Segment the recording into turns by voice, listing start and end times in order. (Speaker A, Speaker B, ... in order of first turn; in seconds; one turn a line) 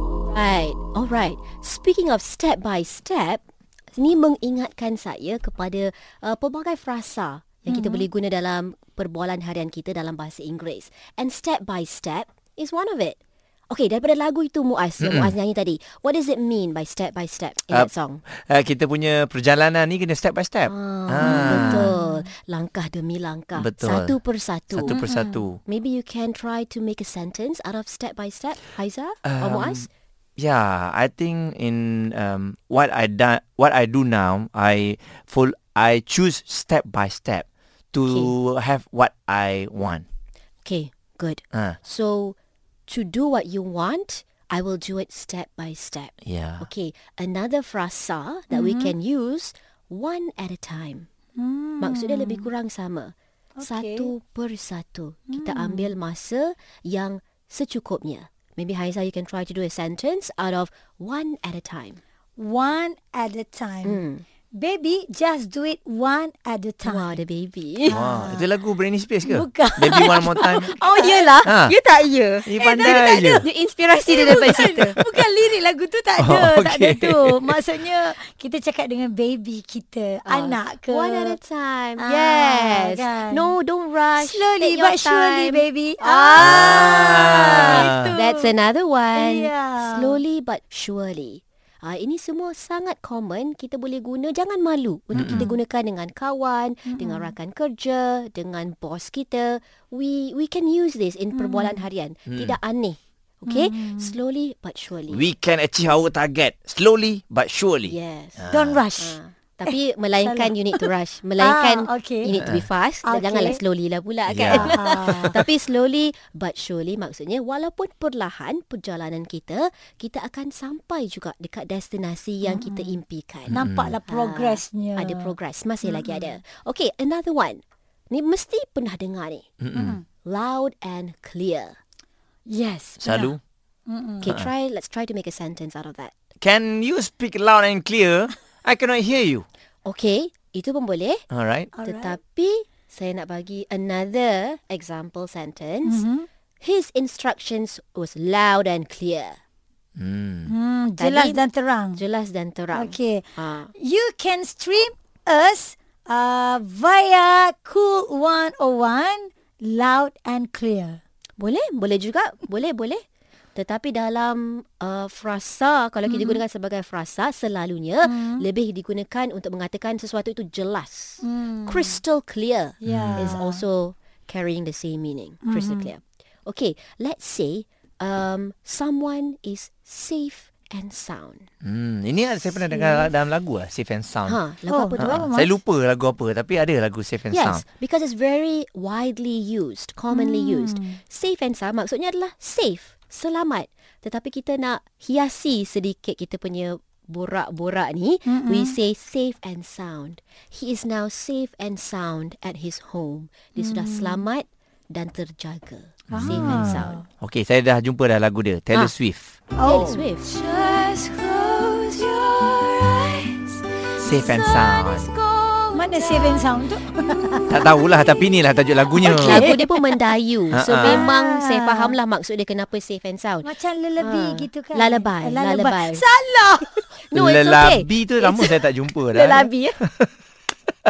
Speaker A: 0.3-3.4
Speaker A: 3.9-13.2
Speaker B: 7.7-8.0
Speaker A: 13.7-18.2
Speaker C: 15.0-15.3
Speaker C: 17.7-21.9
Speaker A: 20.6-25.0
Speaker B: 21.2-22.3
Speaker C: 23.6-24.2
Speaker C: 24.7-25.6
Speaker B: 24.9-25.4
Speaker A: 25.6-29.9
Speaker C: 29.2-40.0
Speaker A: 38.0-38.3
Speaker A: 40.6-42.4
Speaker A: 42.9-51.1
Speaker C: 46.2-46.7
Speaker B: 48.5-48.9
Speaker B: 51.4-52.5
Speaker A: 51.8-62.0
Speaker B: 53.6-54.1
Speaker B: 55.3-55.9
Speaker B: 62.4-67.2
Speaker A: 63.8-64.2
Speaker A: 66.8-68.0
Speaker B: 67.9-68.5
Speaker C: 67.9-70.7
Speaker B: 69.2-71.4
Speaker A: 69.9-75.0
Speaker C: 71.4-71.7
Speaker C: 72.5-73.4
Speaker B: 72.6-81.4
Speaker C: 76.2-77.6
Speaker A: 80.2-105.2
Speaker B: 82.0-83.5
Speaker B: 84.2-88.5
Speaker C: 86.4-88.1
Speaker B: 89.1-90.2
Speaker C: 95.1-95.5
Speaker B: 95.2-95.5
Speaker B: 96.9-97.3
Speaker B: 101.3-101.8
Speaker C: 102.3-102.5
Speaker B: 103.5-104.2
Speaker C: 105.1-108.8
Speaker A: 107.9-108.5
Speaker B: 108.5-110.8
Speaker A: 109.0-129.5
Speaker B: 111.4-112.4
Speaker C: 112.4-112.6
Speaker B: 113.0-113.6
Speaker C: 114.3-115.4
Speaker B: 114.5-115.4
Speaker B: 122.4-123.0
Speaker C: 123.5-124.0
Speaker B: 123.5-125.3
Speaker B: 125.8-126.2
Speaker C: 129.6-130.0
Speaker B: 129.7-130.0
Speaker A: 130.2-131.8
Speaker B: 132.5-133.3
Speaker C: 133.0-133.4
Speaker B: 133.9-134.3
Speaker A: 134.2-136.1
Speaker C: 136.4-139.4
Speaker A: 139.8-141.2
Speaker C: 141.3-141.7
Speaker B: 141.7-142.2
Speaker A: 141.8-146.0
Speaker B: 145.8-146.3
Speaker A: 146.6-149.4
Speaker C: 150.0-150.5
Speaker B: 150.5-152.0
Speaker A: 151.0-151.4
Speaker A: 151.9-153.7
Speaker B: 152.7-161.0
Speaker A: 161.4-163.0
Speaker A: 163.5-181.5
Speaker B: 166.1-166.4
Speaker B: 168.0-168.4
Speaker B: 171.2-172.0
Speaker B: 172.8-173.6
Speaker C: 172.8-173.3
Speaker B: 175.4-175.9
Speaker C: 181.6-187.6
Speaker B: 182.7-183.1
Speaker A: 184.2-185.3
Speaker B: 184.7-185.5
Speaker A: 187.3-207.0
Speaker B: 190.1-191.0
Speaker B: 198.2-198.7
Speaker B: 203.6-204.2
Speaker C: 206.1-209.4
Speaker B: 206.1-207.0
Speaker B: 209.5-210.5
Speaker A: 209.6-216.4
Speaker C: 214.0-215.1
Speaker B: 215.7-217.6
Speaker C: 217.5-219.5
Speaker B: 219.0-220.0
Speaker A: 219.1-226.0
Speaker C: 220.5-221.1
Speaker B: 220.7-221.9
Speaker B: 223.4-226.9
Speaker A: 227.0-228.6
Speaker C: 227.1-229.5
Speaker A: 229.1-229.8